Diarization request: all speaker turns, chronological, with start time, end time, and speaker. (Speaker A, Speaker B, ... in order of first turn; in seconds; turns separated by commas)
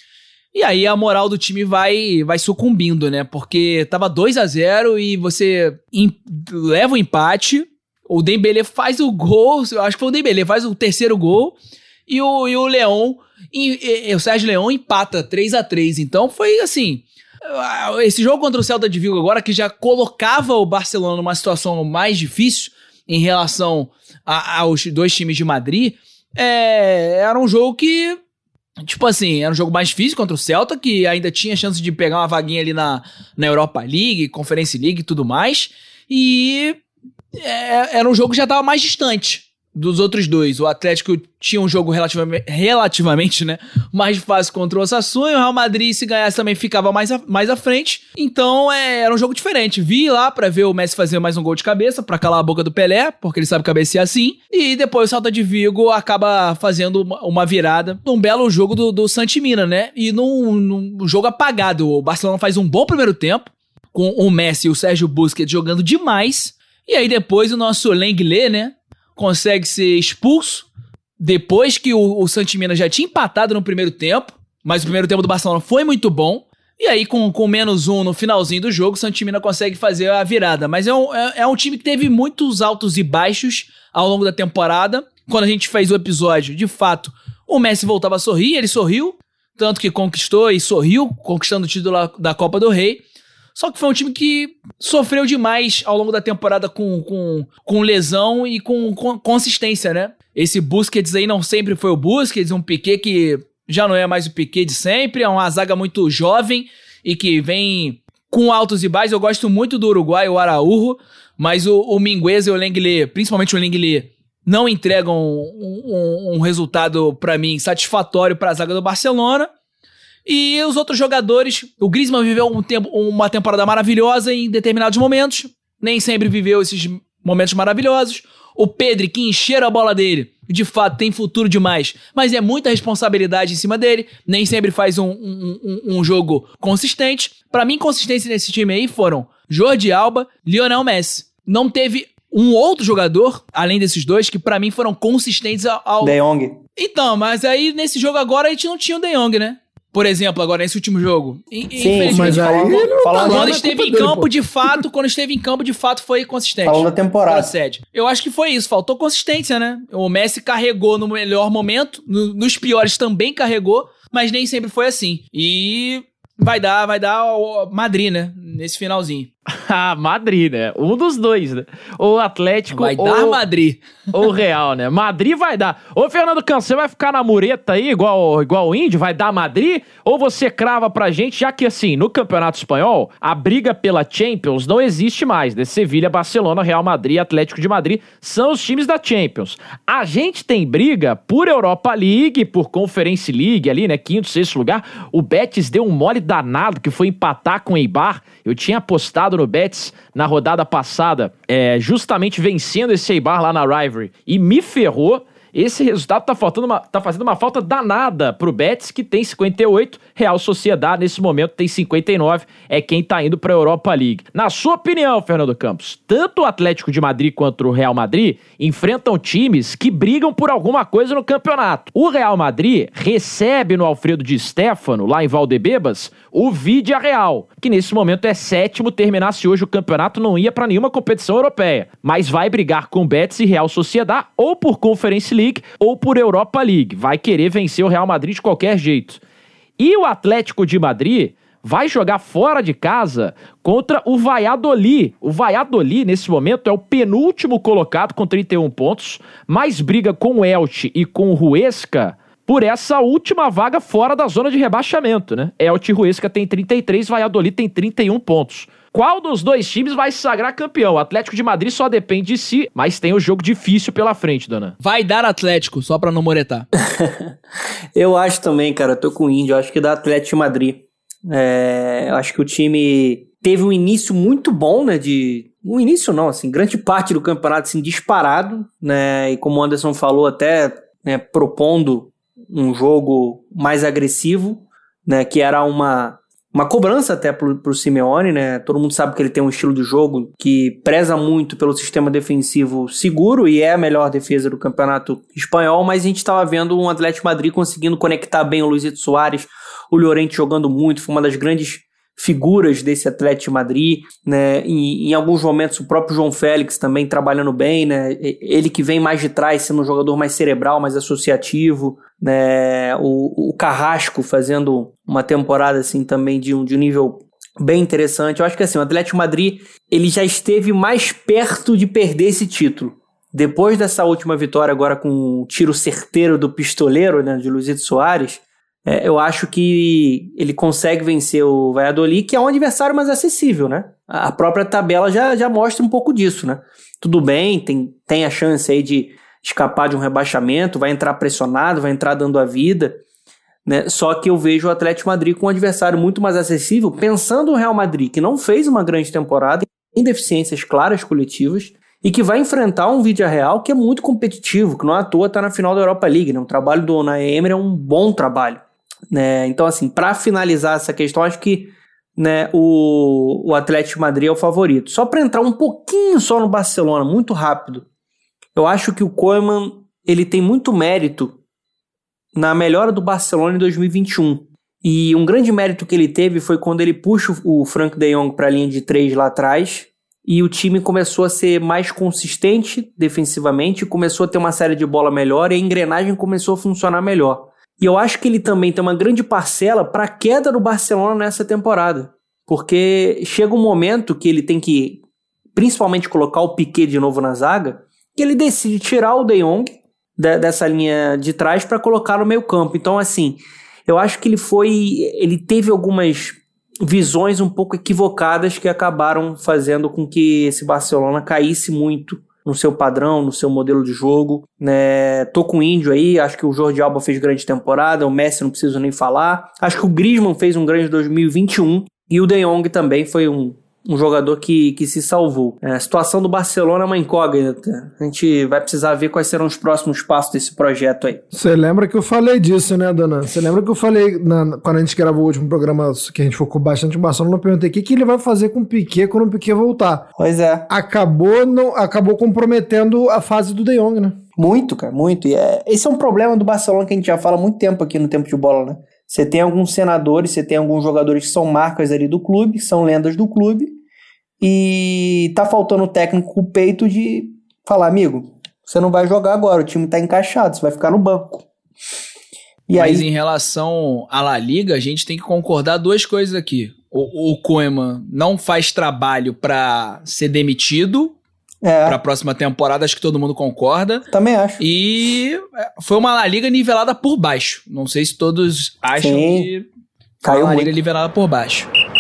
Speaker A: 0.5-28.2, Speaker A: 28.8-36.8, Speaker A: 37.4-70.7, Speaker A: 71.2-93.0, Speaker A: 93.5-119.5, Speaker A: 120.2-146.2, Speaker B: 146.0-146.6, Speaker A: 146.8-169.3, Speaker B: 151.8-153.9, Speaker C: 152.1-154.3, Speaker B: 156.6-157.5, Speaker D: 169.5-173.4, Speaker A: 172.7-173.8, Speaker D: 174.1-239.2, Speaker D: 239.8-264.7, Speaker A: 264.8-266.7, Speaker B: 266.9-267.3, Speaker B: 267.9-343.0, Speaker B: 343.6-367.9, Speaker B: 368.6-371.4, Speaker B: 372.3-395.0, Speaker B: 395.5-431.2, Speaker C: 431.3-440.1, Speaker B: 440.2-440.6, Speaker C: 440.7-444.2, Speaker B: 444.4-453.8, Speaker B: 454.4-461.4, Speaker B: 462.7-463.1, Speaker A: 462.8-471.2, Speaker B: 471.6-472.0, Speaker A: 471.9-474.0, Speaker B: 474.1-474.6, Speaker A: 474.6-479.7, Speaker B: 478.9-479.5, Speaker B: 480.2-480.7, Speaker A: 480.2-481.7